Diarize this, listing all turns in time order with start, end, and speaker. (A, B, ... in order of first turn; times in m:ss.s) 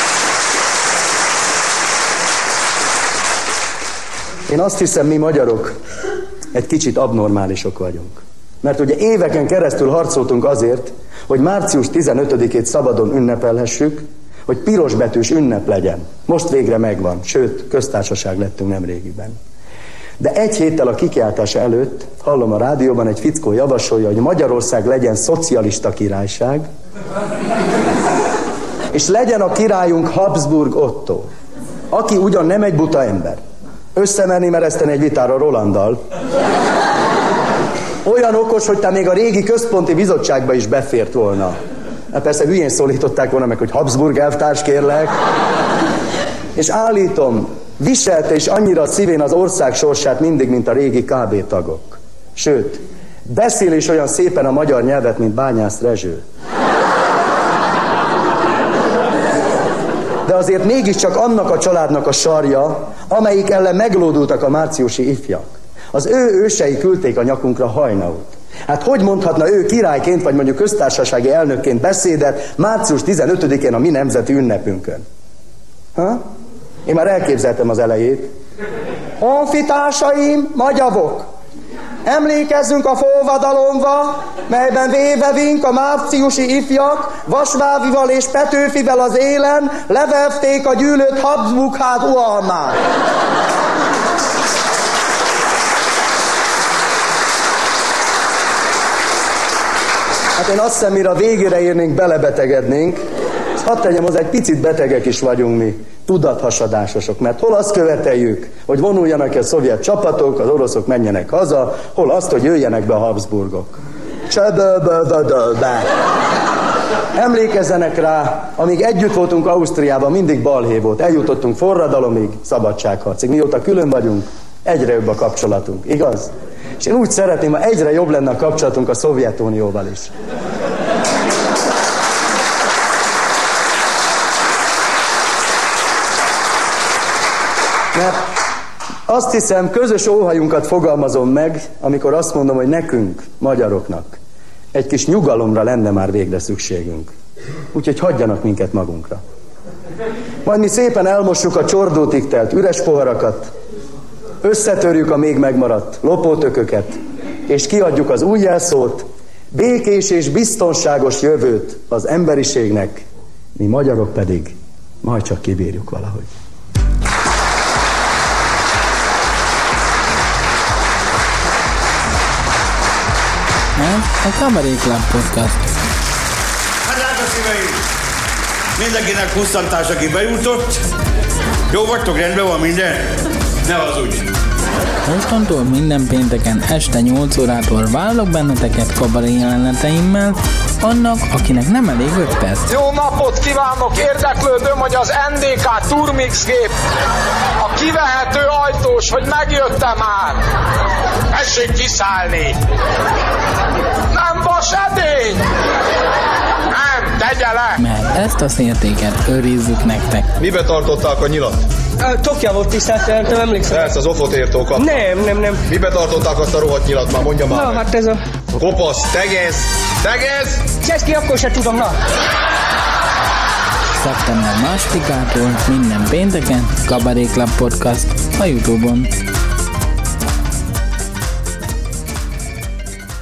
0:04.5-0:05.8 A
0:06.5-0:19.4 A
0:20.2-0:26.6 A
0:28.9-0:31.3 A
0:31.9-0:33.4 A
0:34.0-0:36.0 A
0:38.0-0:41.6 A
0:42.1-0:45.1 A
0:46.6-0:56.2 A
1:00.3-1:15.0 A
1:16.0-1:16.2 A
1:16.9-1:18.3 A
1:19.2-1:21.3 A
1:22.0-1:32.8 A
1:40.4-1:43.0 A
1:43.6-1:53.8 A
1:54.3-1:55.9 A
1:57.2-2:10.1 A
2:19.1-2:24.2 A
2:24.7-2:27.1 A
2:27.7-2:29.2 A
2:30.4-2:33.5 A
2:34.4-2:37.0 A
2:37.5-2:43.0 A
2:43.6-2:46.3 A
2:53.8-2:55.7 B
2:56.8-2:57.8 C
2:58.8-3:00.8 C
3:01.7-3:04.3 C
3:05.1-3:12.7 B
3:12.7-3:16.8 D
3:17.6-3:20.4 D
3:21.3-3:22.6 D
3:24.1-3:25.5 D
3:26.7-3:27.8 D
3:27.8-3:30.3 B
3:30.4-3:31.6 E
3:32.0-3:33.9 F
3:33.7-3:35.0 E
3:34.8-3:35.6 F
3:35.7-3:37.8 E
3:37.5-3:38.2 F
3:38.5-3:40.7 E
3:40.8-3:42.0 F
3:44.0-3:49.1 B